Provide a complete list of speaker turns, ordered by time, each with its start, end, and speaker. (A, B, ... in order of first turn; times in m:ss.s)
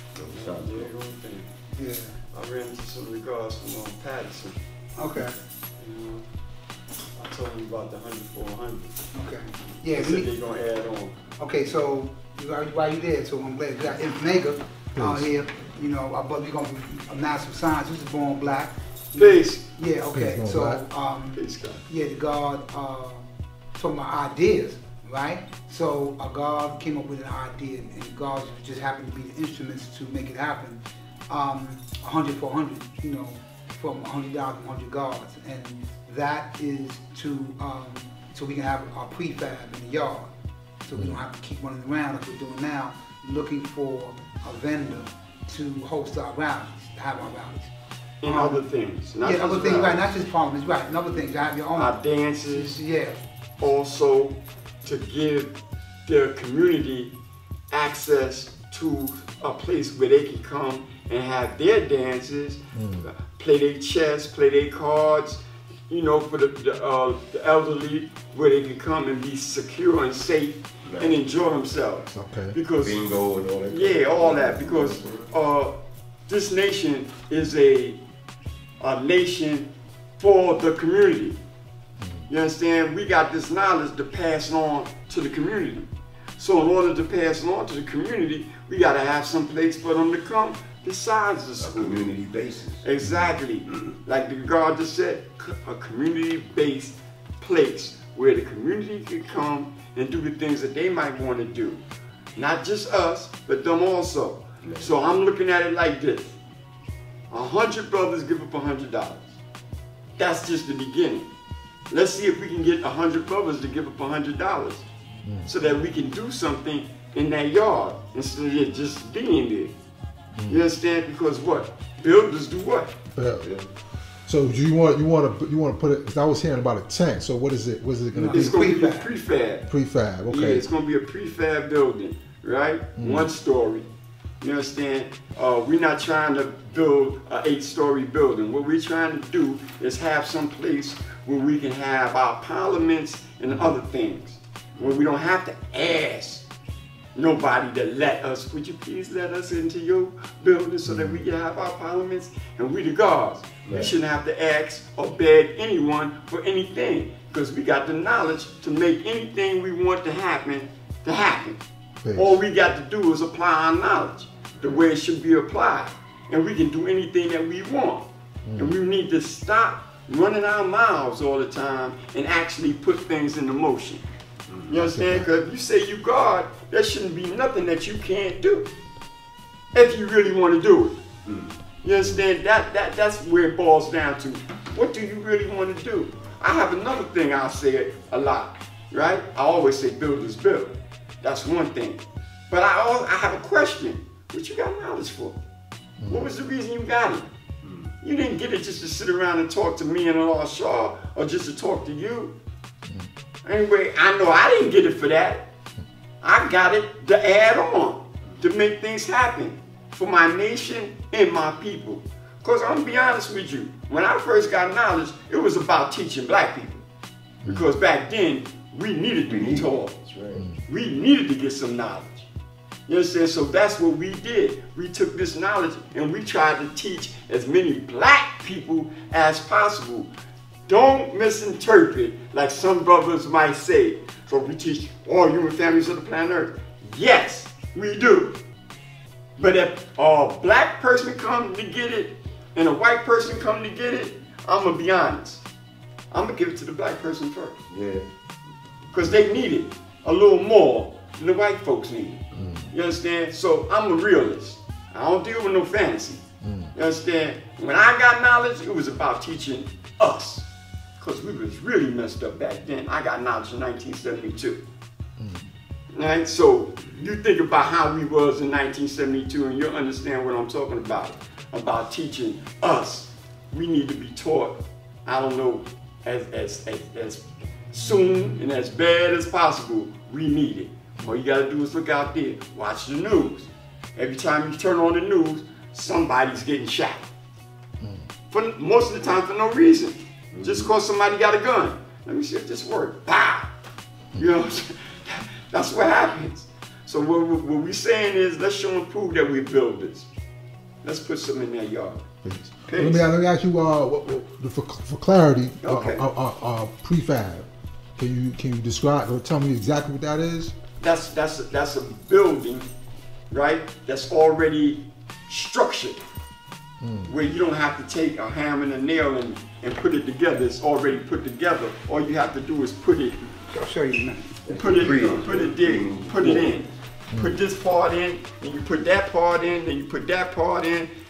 0:00.2-0:00.9 A
0:00.2-0:01.5 B
0:01.8-0:02.2 C
0:02.3-0:04.6 B
0:05.0-0:05.4 C
0:05.8-0:06.2 B
0:07.1-0:08.9 B
0:09.1-0:10.3 C
0:09.9-0:11.2 B
0:11.4-0:40.3 C
0:15.0-0:15.3 D
0:19.1-0:19.6 B
0:20.1-0:20.9 D
0:21.3-0:21.8 B
0:40.8-0:47.7 C
0:41.0-0:41.2 D
0:48.2-0:50.1 B
0:48.2-0:48.6 C
0:49.2-0:53.2 C
0:51.7-0:52.8 B
0:53.6-0:55.5 B
0:56.1-0:57.1 B
0:57.7-1:13.1 B
1:02.7-1:03.1 D
1:10.9-1:11.2 A
1:12.1-1:12.6 D
1:12.8-1:15.3 A
1:13.6-1:15.8 B
1:16.3-1:18.0 B
1:18.8-1:21.4 B
1:22.0-1:22.3 D
1:22.3-1:32.1 B
1:31.6-1:32.9 A
1:32.8-1:41.8 B
1:42.4-1:46.3 B
1:44.6-1:44.9 A
1:47.3-1:49.4 B
1:50.2-1:51.3 B
1:51.9-1:54.8 B
1:55.2-1:55.5 D
1:55.4-1:59.7 B
2:00.4-2:00.6 D
2:00.5-2:02.9 B
2:03.2-2:03.5 D
2:03.4-2:03.7 A
2:04.2-2:08.6 D
2:08.1-2:09.1 C
2:08.3-2:09.7 B
2:09.7-2:10.7 D
2:10.3-2:13.8 B
2:13.0-2:13.3 D
2:14.4-2:26.4 B
2:27.1-2:41.6 B
2:30.8-2:31.2 D
2:33.7-2:33.9 A
2:42.0-2:42.4 D
2:42.1-2:54.0 B
2:44.6-2:44.8 A
2:48.4-2:48.8 D
2:54.5-2:54.7 A
2:54.7-2:58.7 B
2:54.7-2:55.3 D
2:59.7-3:01.0 B
3:01.2-3:01.6 A
3:01.8-3:15.4 B
3:02.0-3:02.2 D
3:16.0-3:16.3 D
3:16.1-3:17.3 B
3:17.6-3:17.9 A
3:18.0-3:22.3 B
3:23.4-3:25.4 B
3:26.2-3:36.8 B
3:37.4-3:37.7 D
3:37.4-3:40.0 B
3:39.3-3:40.4 A
3:40.3-3:40.6 D
3:40.6-3:42.3 B
3:42.9-3:50.1 B
3:50.7-3:58.4 B
3:59.4-4:05.4 B
4:06.1-4:07.6 B
4:07.7-4:08.0 A
4:08.9-4:20.5 B
4:12.3-4:12.7 D
4:16.4-4:16.7 D
4:21.0-4:24.6 B
4:25.2-4:25.5 D
4:25.9-4:47.1 B
4:47.8-4:48.1 D
4:48.3-4:53.5 B
4:50.3-4:50.7 A
4:54.2-5:00.1 B
5:00.8-5:03.1 B
5:02.2-5:10.6 D
5:05.6-5:06.1 B
5:10.8-5:12.7 B
5:13.3-5:16.0 B
5:16.8-5:17.1 D
5:17.1-5:23.2 B
5:23.5-5:25.0 C
5:24.4-5:26.6 A
5:24.5-5:30.9 B